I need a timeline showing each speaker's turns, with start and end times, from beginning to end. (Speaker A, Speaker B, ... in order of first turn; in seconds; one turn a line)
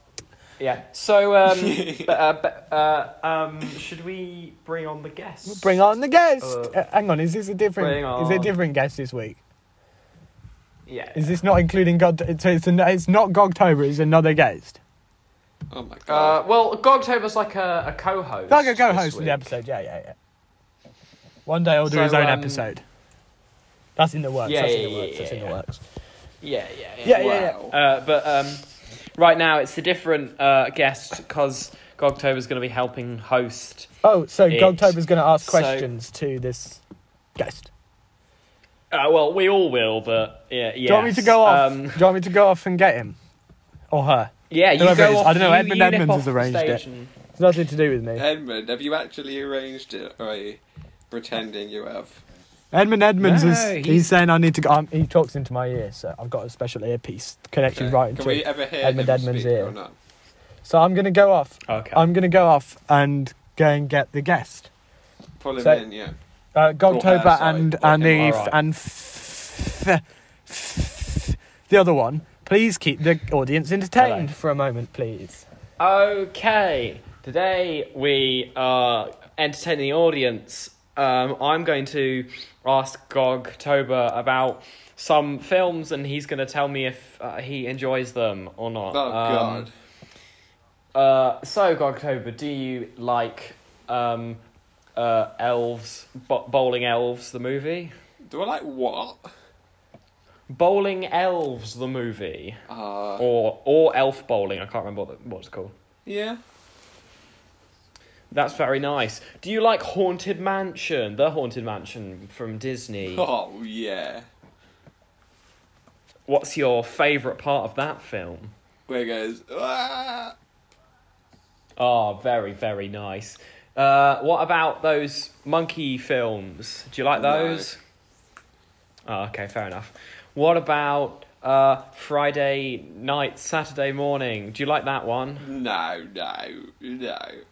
Speaker A: 0.6-5.8
Speaker B: 1.5-2.1
Speaker C: 5.5-9.4
Speaker A: 6.4-6.8
Speaker A: 7.8-8.5
Speaker A: 10.9-11.4
Speaker C: 11.2-14.8
Speaker B: 15.7-16.4
Speaker A: 16.1-19.5
Speaker C: 18.5-20.2
Speaker C: 21.5-22.8
Speaker A: 21.9-22.7
Speaker C: 24.0-25.8
Speaker A: 24.4-25.6
Speaker A: 26.4-28.6
Speaker C: 27.0-27.6
Speaker B: 27.1-27.8
Speaker A: 29.2-33.9
Speaker C: 34.0-36.8
Speaker A: 34.5-35.9
Speaker C: 37.4-37.7
Speaker A: 38.9-42.1
Speaker C: 40.9-43.2
Speaker C: 43.9-46.8
Speaker A: 44.5-47.1
Speaker C: 47.4-48.2
Speaker B: 48.2-50.6
Speaker B: 51.1-52.2
Speaker C: 52.7-59.7
Speaker A: 53.2-54.1
Speaker B: 57.7-59.9
Speaker C: 60.6-64.7
Speaker A: 61.7-62.1
Speaker B: 65.4-66.2
Speaker C: 65.6-65.8
Speaker C: 66.5-75.5
Speaker B: 66.9-68.4
Speaker A: 68.1-68.6
Speaker A: 74.0-74.3
Speaker A: 75.8-89.7
Speaker B: 88.9-89.7
Speaker A: 91.0-94.4
Speaker A: 95.0-97.9
Speaker B: 98.3-99.3
Speaker A: 100.5-102.6
Speaker B: 102.7-103.2
Speaker A: 103.2-105.7
Speaker B: 106.1-106.4
Speaker A: 108.3-113.3
Speaker B: 113.1-114.2
Speaker A: 116.3-118.5
Speaker B: 118.9-120.3
Speaker A: 121.8-127.8
Speaker B: 127.2-127.7
Speaker A: 129.1-135.5
Speaker B: 135.4-137.4